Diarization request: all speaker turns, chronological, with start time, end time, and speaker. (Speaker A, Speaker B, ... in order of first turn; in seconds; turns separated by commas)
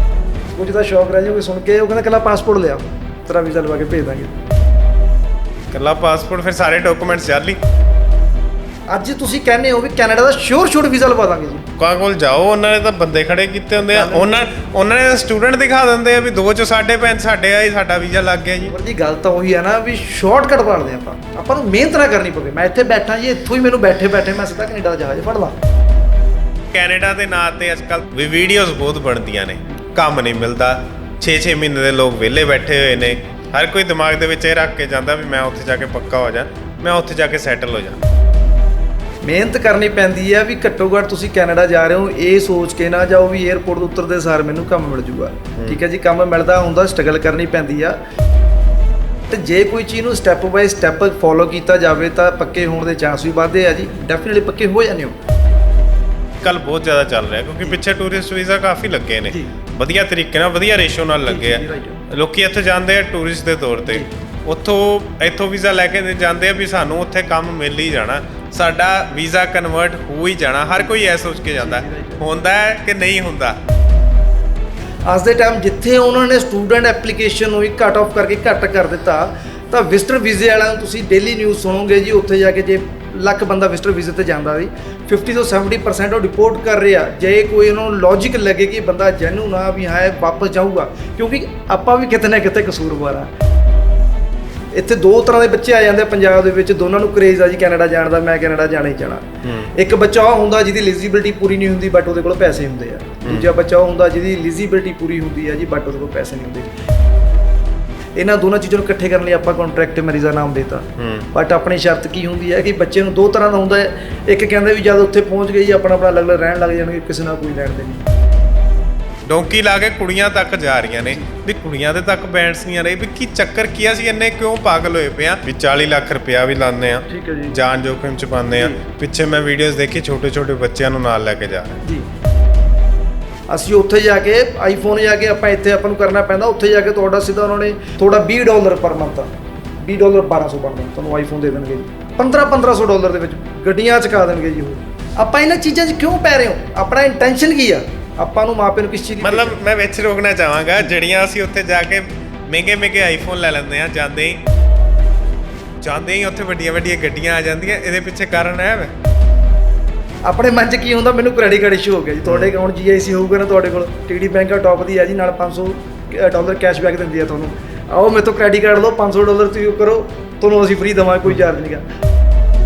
Speaker A: 0.6-4.3, Speaker B: 5.7-7.6, Speaker A: 8.9-11.7, Speaker B: 11.8-18.7, Speaker A: 13.8-14.3, Speaker A: 18.6-25.6, Speaker B: 26.7-38.0, Speaker A: 39.2-48.0, Speaker A: 49.3-55.1, Speaker B: 56.4-73.6, Speaker A: 61.3-62.0, Speaker A: 71.6-72.2, Speaker A: 75.1-93.3, Speaker A: 94.7-106.7, Speaker B: 99.4-99.7, Speaker B: 103.2-103.5, Speaker A: 108.2-118.0, Speaker B: 111.0-111.3, Speaker B: 119.3-131.8, Speaker A: 127.1-127.6, Speaker A: 128.5-128.8, Speaker A: 133.5-149.6, Speaker B: 149.2-154.4, Speaker B: 155.8-158.9, Speaker A: 160.2-171.8, Speaker B: 162.3-162.5